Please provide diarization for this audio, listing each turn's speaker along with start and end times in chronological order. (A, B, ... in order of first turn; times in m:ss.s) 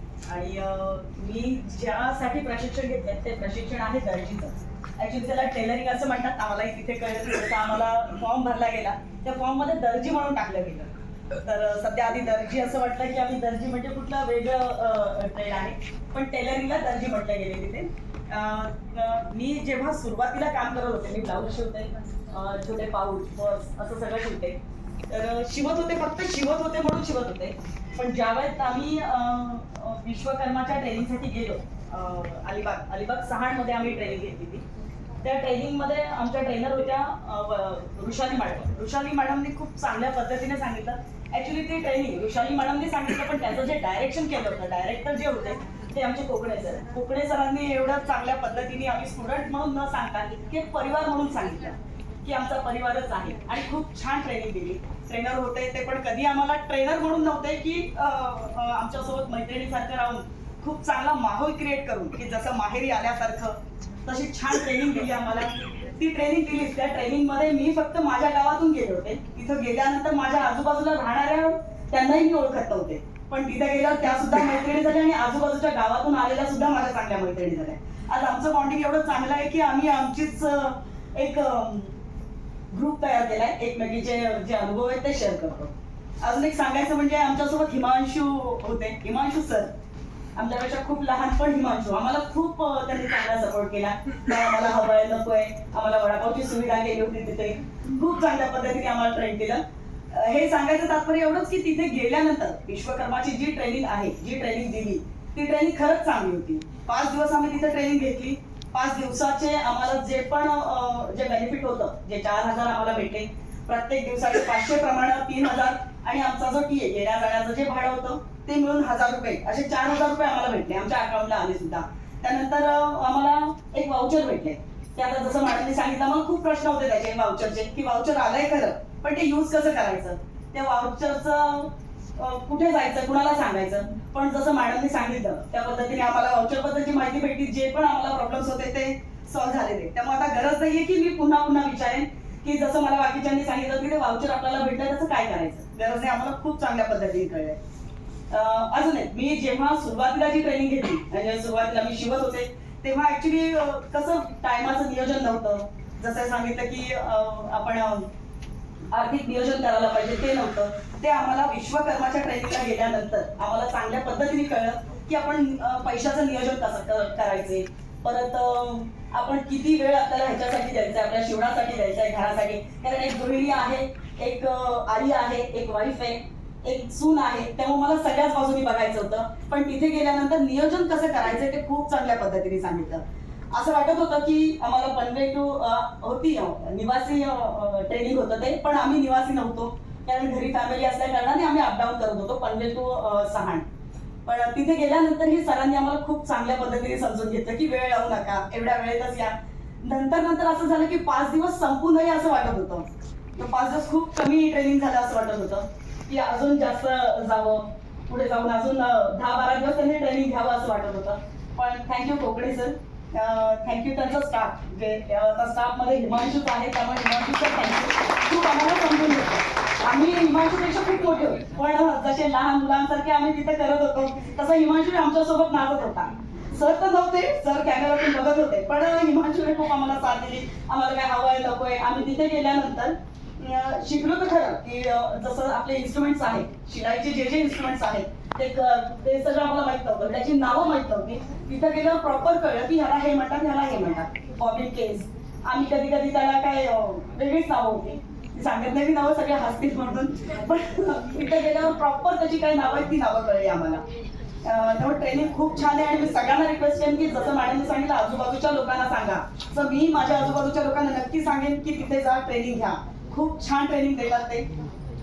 0:00.3-0:24.6 A
0:25.1-0:34.6 A
0:35.2-1:22.0 A
1:22.7-1:29.7 A
1:30.4-2:27.6 A
2:28.3-2:38.1 A
2:38.9-3:13.7 A
3:14.2-4:13.8 A
4:14.4-4:24.4 A